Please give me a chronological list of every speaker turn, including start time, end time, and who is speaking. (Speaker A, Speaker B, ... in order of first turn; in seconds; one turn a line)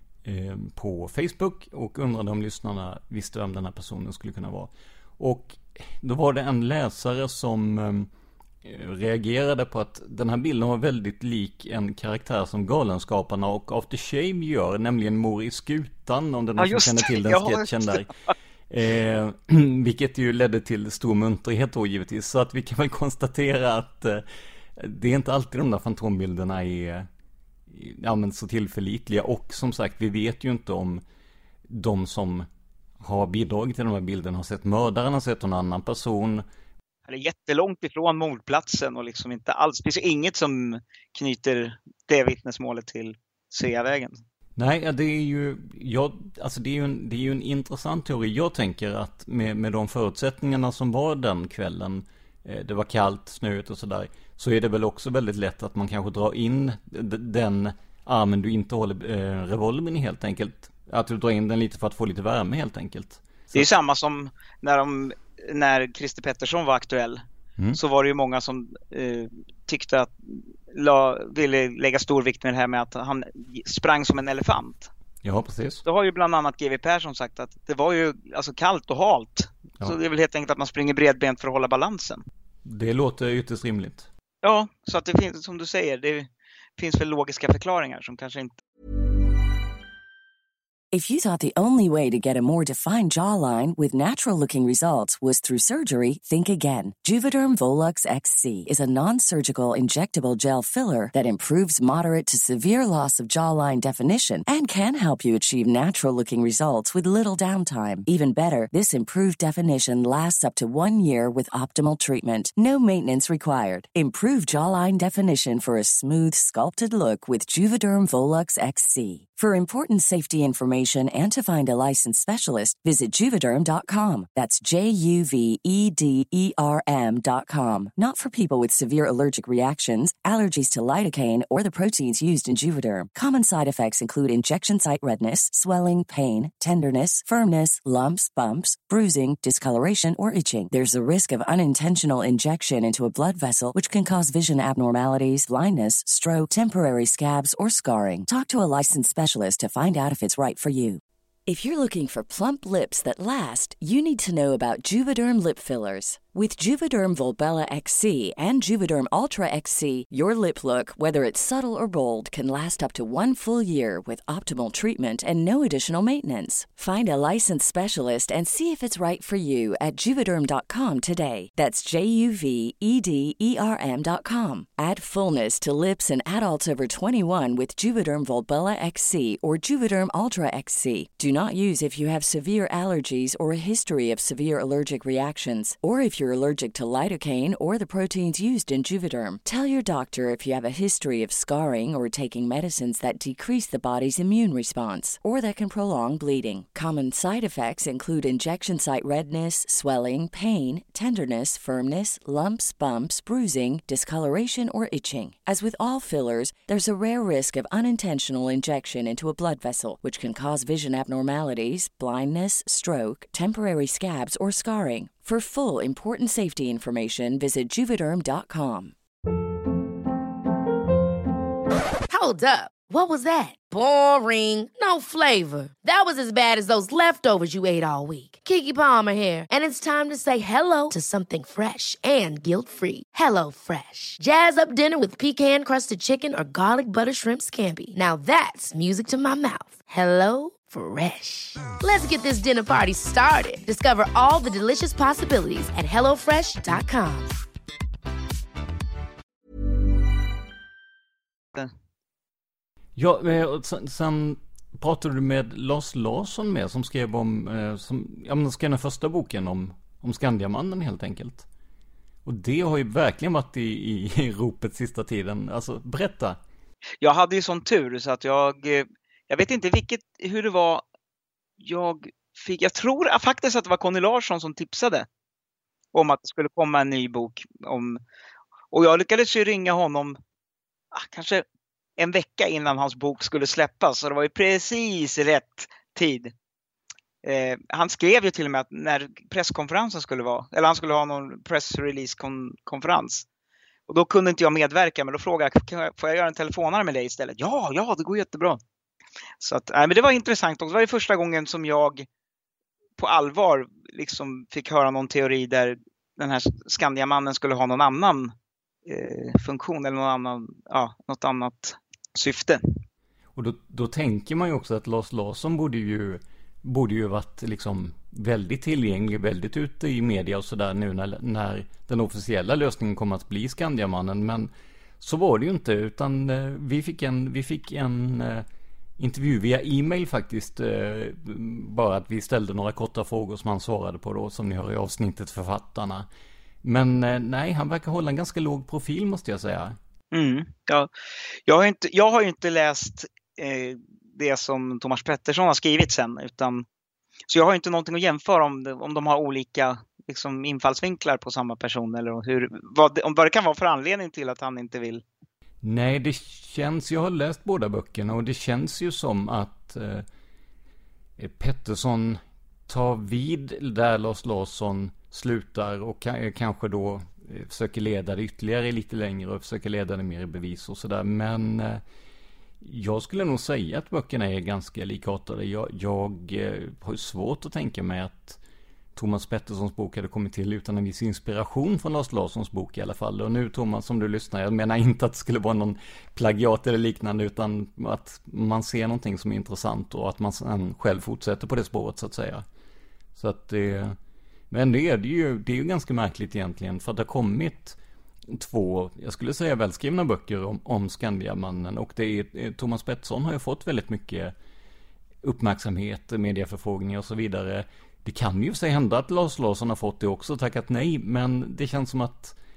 Speaker A: 0.2-8.1
Speaker A: 8.6-18.1
Speaker B: 16.6-18.1
Speaker A: 18.7-27.1
Speaker A: 27.7-31.0
Speaker A: 31.7-32.5
Speaker A: 33.0-36.4
Speaker B: 37.1-44.2
Speaker A: 44.6-63.7
Speaker B: 63.5-67.2
Speaker B: 67.7-74.9
Speaker A: 75.2-75.8
Speaker B: 75.9-82.2
Speaker A: 82.7-84.1
Speaker B: 84.4-88.6
Speaker C: 90.9-218.9
Speaker D: 222.1-247.3
Speaker A: 253.0-261.5
Speaker A: 262.2-266.4
Speaker B: 267.0-270.8
Speaker B: 271.6-275.1
Speaker B: 275.9-278.0
Speaker B: 278.7-280.2
Speaker B: 280.9-281.4
Speaker B: 282.0-286.3
Speaker B: 287.2-293.2
Speaker B: 293.9-298.6
Speaker B: 299.4-302.1
Speaker B: 303.0-308.3
Speaker B: 308.9-312.6
Speaker A: 313.4-328.5
Speaker A: 329.0-336.1
Speaker A: 336.6-339.8
Speaker B: 340.1-340.9
Speaker B: 341.5-346.6
Speaker B: 347.3-355.0
Speaker A: 355.6-360.1
Speaker A: 361.2-371.8
Speaker A: 372.6-378.4
Speaker A: 378.9-392.5
Speaker A: 393.2-394.0
Speaker A: 394.5-404.3
Speaker A: 405.2-412.4